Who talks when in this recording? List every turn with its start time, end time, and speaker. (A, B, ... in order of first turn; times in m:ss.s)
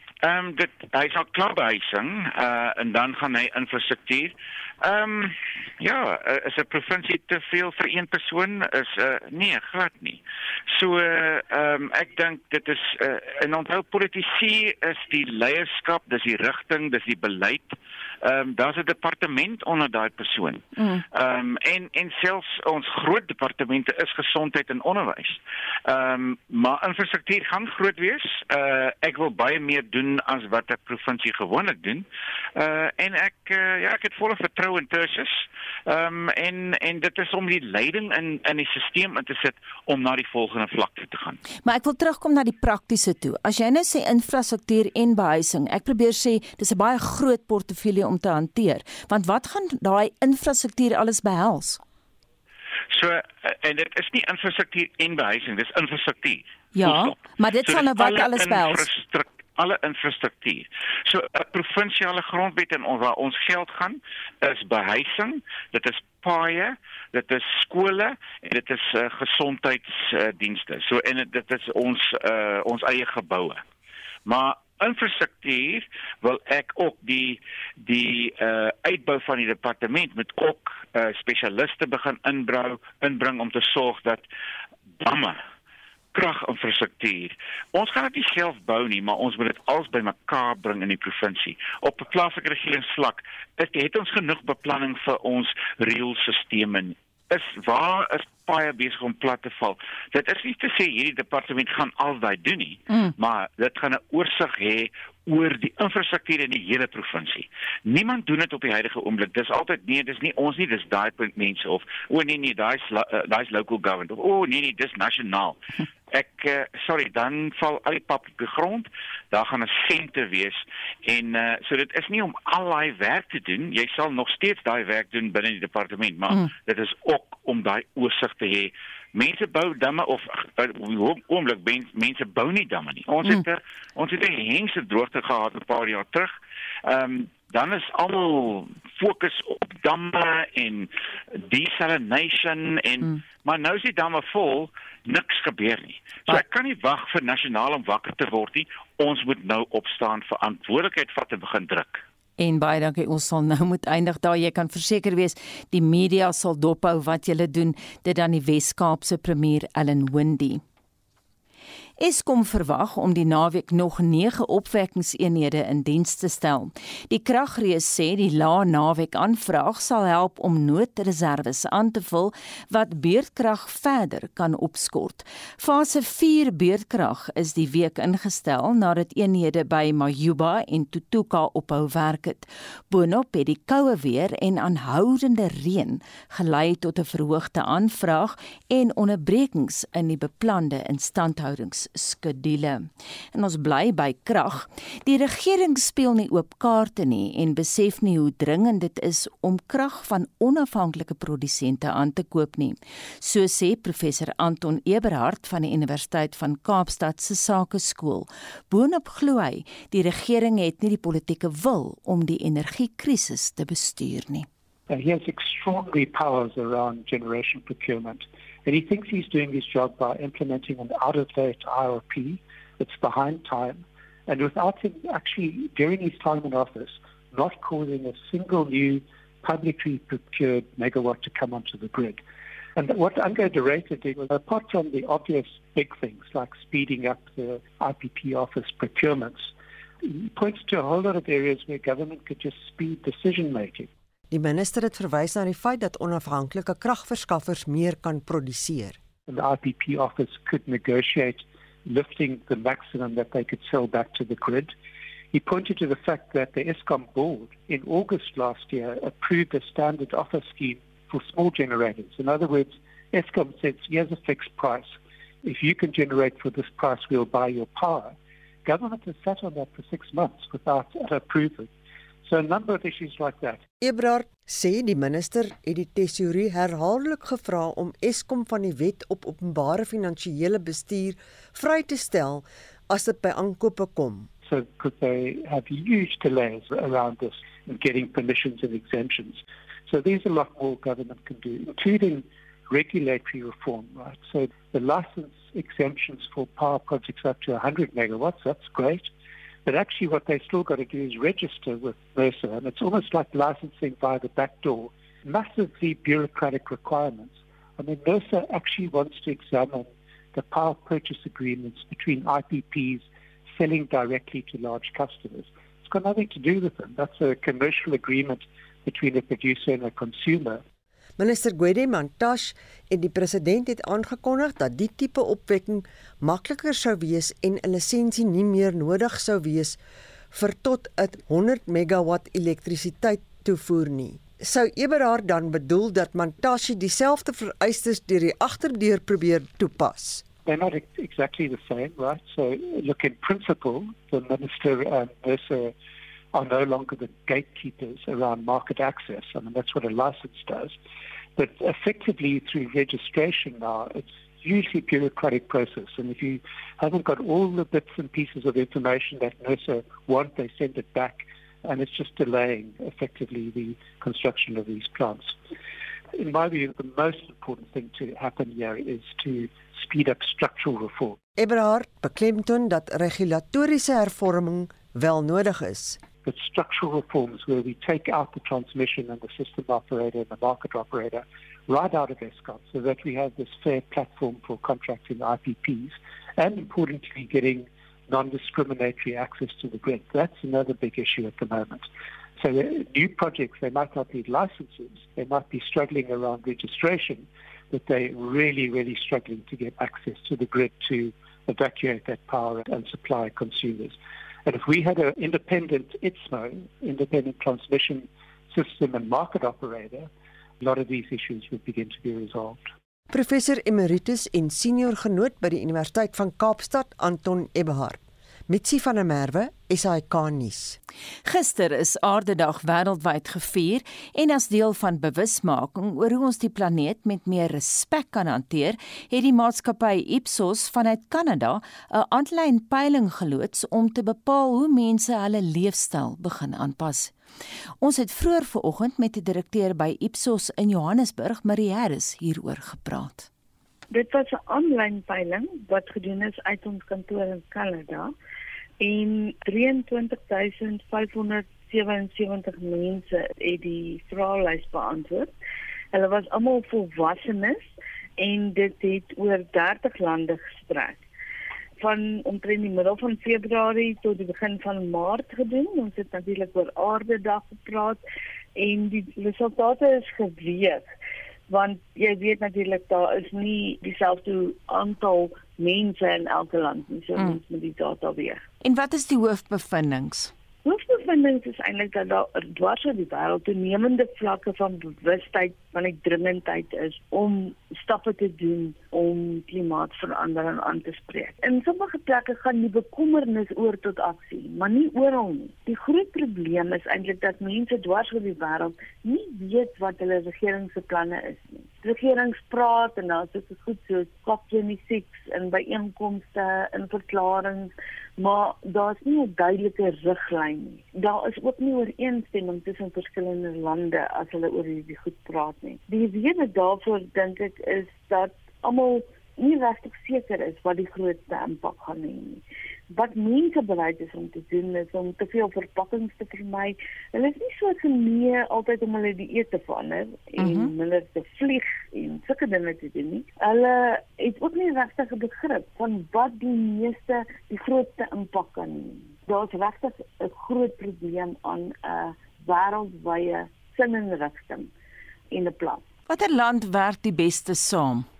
0:00.2-0:41.4 A
0:20.8-0:21.0 B
0:41.6-0:51.8 B
0:52.9-1:13.6 A
0:56.7-0:58.8 B
1:14.2-1:24.2 A
1:25.0-1:25.4 A
1:26.1-1:55.6 A
1:56.1-2:32.0 A
2:32.4-2:40.6 B
2:42.0-3:34.5 B
3:34.9-3:52.2 C
3:52.8-4:03.9 C
4:04.3-4:09.0 D
4:09.3-4:14.7 C
4:15.3-4:31.7 C
4:32.2-4:33.6 C
4:33.8-4:44.3 D
4:44.4-4:59.1 C
4:59.6-5:20.6 C
5:21.2-5:29.8 D
5:30.3-5:40.2 D
5:40.4-5:45.7 C
5:46.3-5:50.8 C
5:51.4-6:05.4 C
6:06.1-6:11.2 C
6:11.4-6:16.0 D
6:16.2-6:50.1 C
6:50.6-6:52.6 C
6:53.1-7:00.8 D
7:01.2-7:17.1 B
7:17.8-7:23.3 B
7:23.9-7:28.1 E
7:28.8-7:35.3 E
7:35.9-7:41.0 E
7:41.8-7:48.0 E
7:48.6-7:50.8 E
7:51.5-7:58.4 E
7:58.6-8:00.3 B
8:00.6-9:04.7 E
8:50.4-8:50.7 B
9:05.3-9:05.8 E
9:06.1-9:08.0 B